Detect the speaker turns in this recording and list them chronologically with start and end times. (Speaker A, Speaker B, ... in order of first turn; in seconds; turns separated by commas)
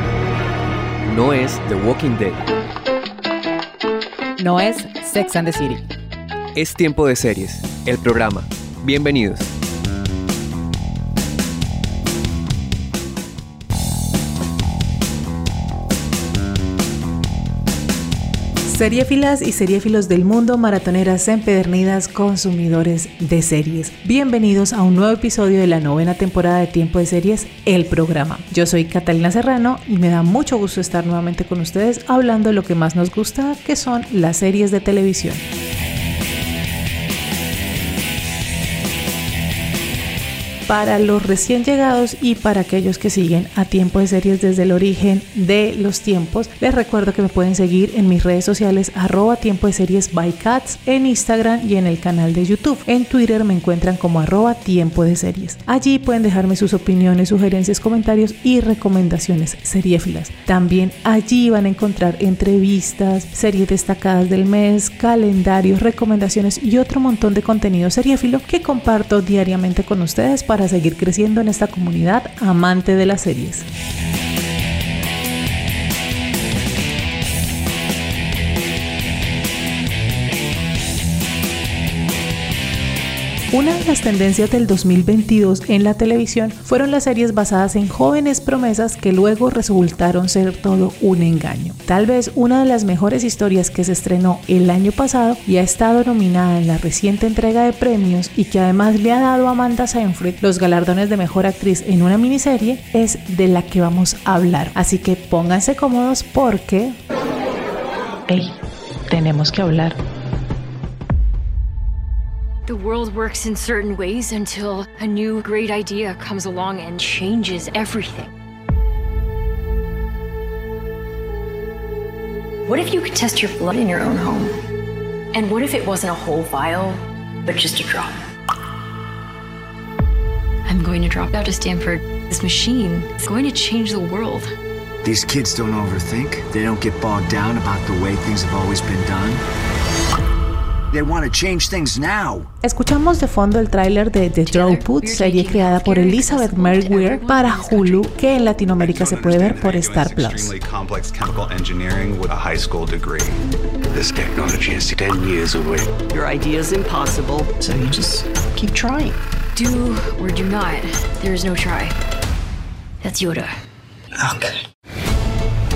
Speaker A: 1.0-2.4, Speaker B: 4.4-5.9, Speaker A: 6.5-9.4, Speaker B: 18.7-35.4, Speaker B: 40.7-73.7, Speaker B: 83.5-107.0, Speaker B: 108.3-108.5, Speaker B: 109.1-110.0, Speaker C: 112.7-118.3, Speaker C: 122.7-124.5, Speaker C: 125.3-128.2, Speaker C: 130.7-134.5, Speaker D: 135.0-139.4, Speaker D: 140.9-142.5, Speaker B: 142.6-150.5, Speaker C: 144.5-148.2, Speaker E: 148.8-153.4, Speaker E: 154.0-154.4, Speaker D: 154.4-155.8, Speaker F: 156.1-159.2, Speaker C: 159.5-161.9, Speaker C: 163.0-163.6